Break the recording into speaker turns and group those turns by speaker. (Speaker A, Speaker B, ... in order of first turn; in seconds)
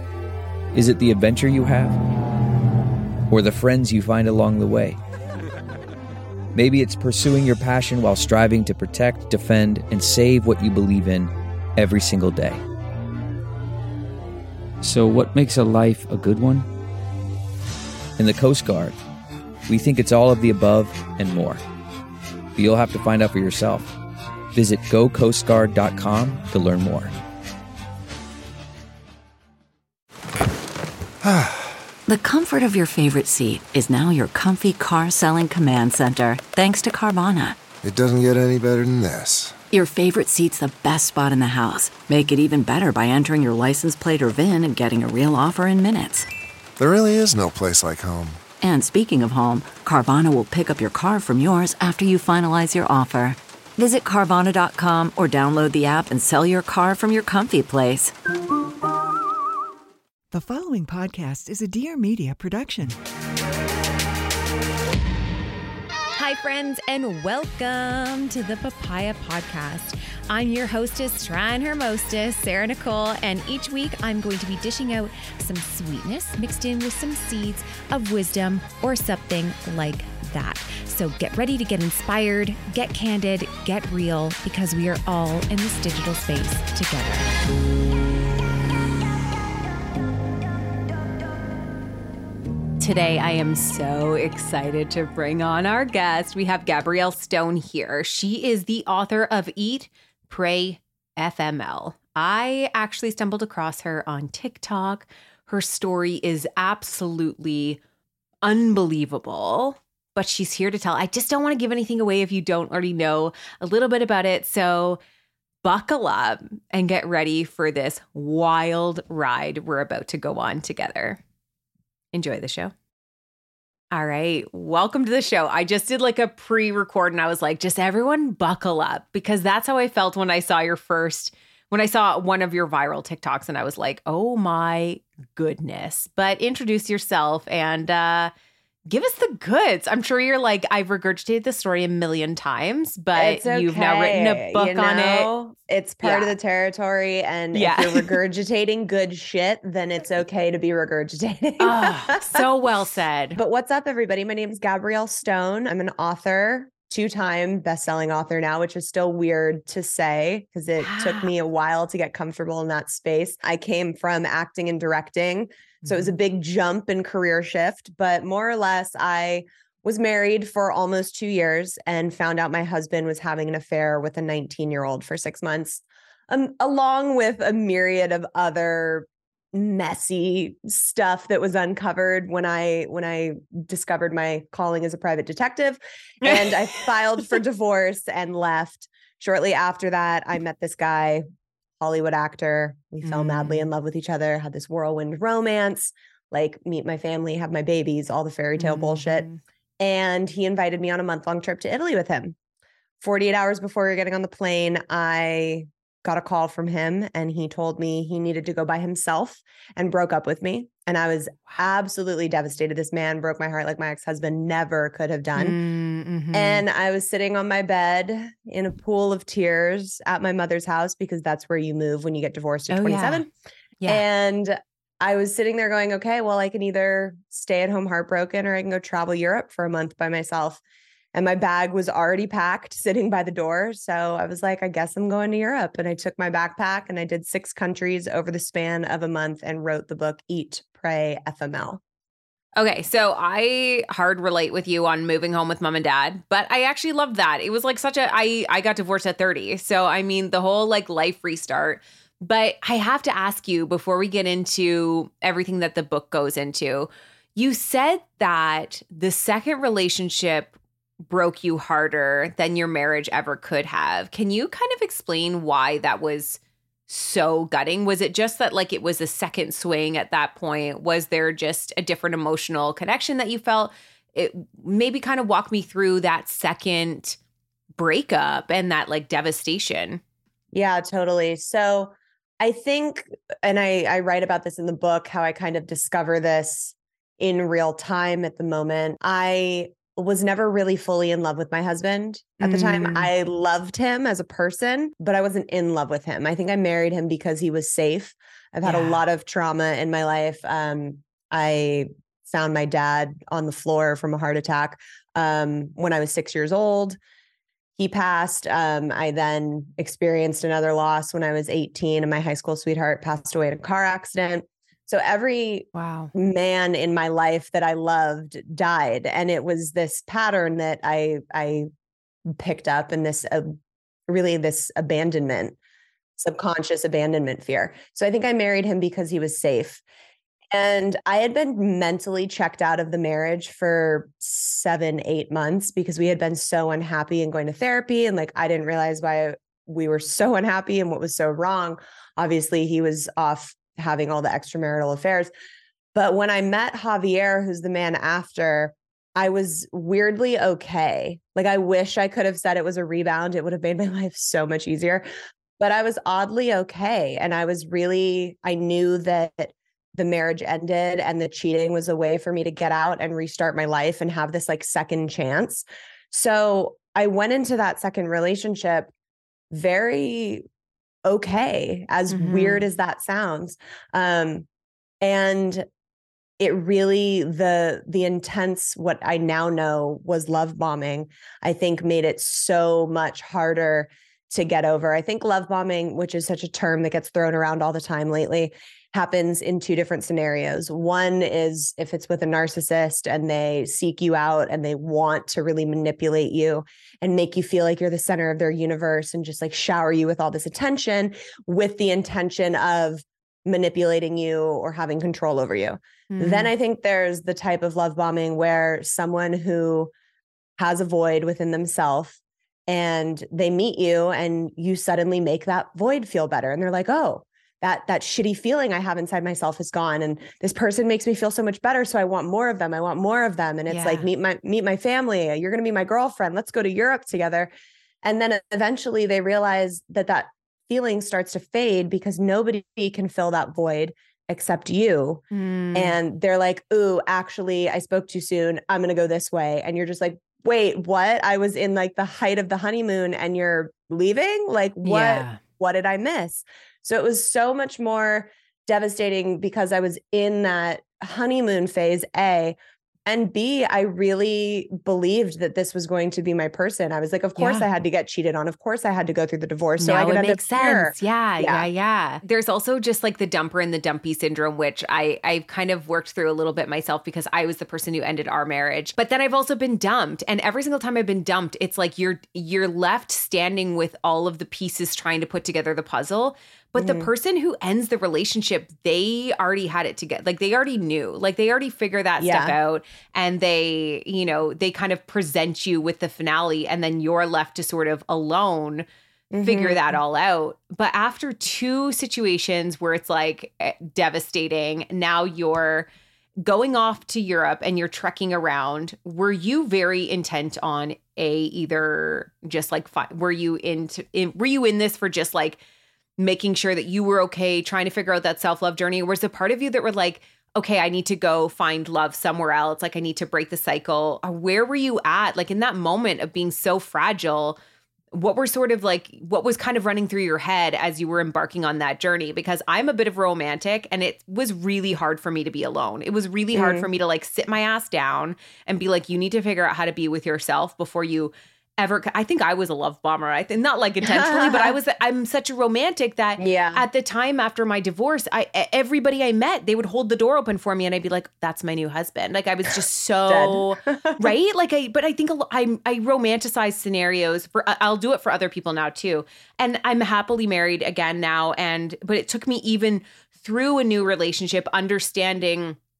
Speaker A: 0.7-2.0, 3.3-5.0, 6.5-12.6, 14.8-16.7, 18.2-19.0, 19.7-21.6, 22.6-23.9, 24.5-27.1
Speaker B: 31.2-31.8, 37.8-39.6, 46.8-48.4
Speaker C: 32.0-37.6, 39.7-46.3, 48.6-58.1
Speaker D: 60.3-63.0
Speaker E: 66.2-87.3, 92.8-107.8, 108.4-115.0, 115.6-121.2, 122.1-122.7, 123.9-138.3, 138.9-145.3, 146.0-146.3, 147.5-148.2, 151.6-153.4, 160.8-161.3, 165.8-166.1, 186.2-186.8, 193.0-193.7, 198.6-199.4, 215.3-216.6, 222.7-223.2, 223.8-224.0, 242.6-260.5, 261.1-277.2, 277.8-280.0, 292.4-293.1, 298.6-299.0, 315.7-316.1, 372.1-372.6, 406.1-406.5, 423.7-424.1, 435.3-436.0, 444.8-445.4, 457.4-457.6, 459.8-488.9, 489.4-495.9, 496.4-505.6, 506.2-517.6, 518.1-555.8
Speaker F: 143.1-152.4, 153.4-191.2, 191.8-199.3, 199.8-202.3, 203.0-215.6, 216.3-223.3, 223.9-230.6, 231.1-241.8, 280.5-307.0, 307.8-321.7, 322.2-323.6, 324.1-325.6, 326.2-329.8, 330.5-345.3, 345.9-355.1, 355.6-368.9, 369.5-370.4, 371.0-374.5, 375.0-375.6, 376.4-409.9, 410.6-427.5, 428.0-435.2, 435.7-461.7, 476.8-477.1, 482.2-482.5, 489.3-489.9, 526.5-526.9, 534.0-534.7, 536.4-536.8, 543.3-544.3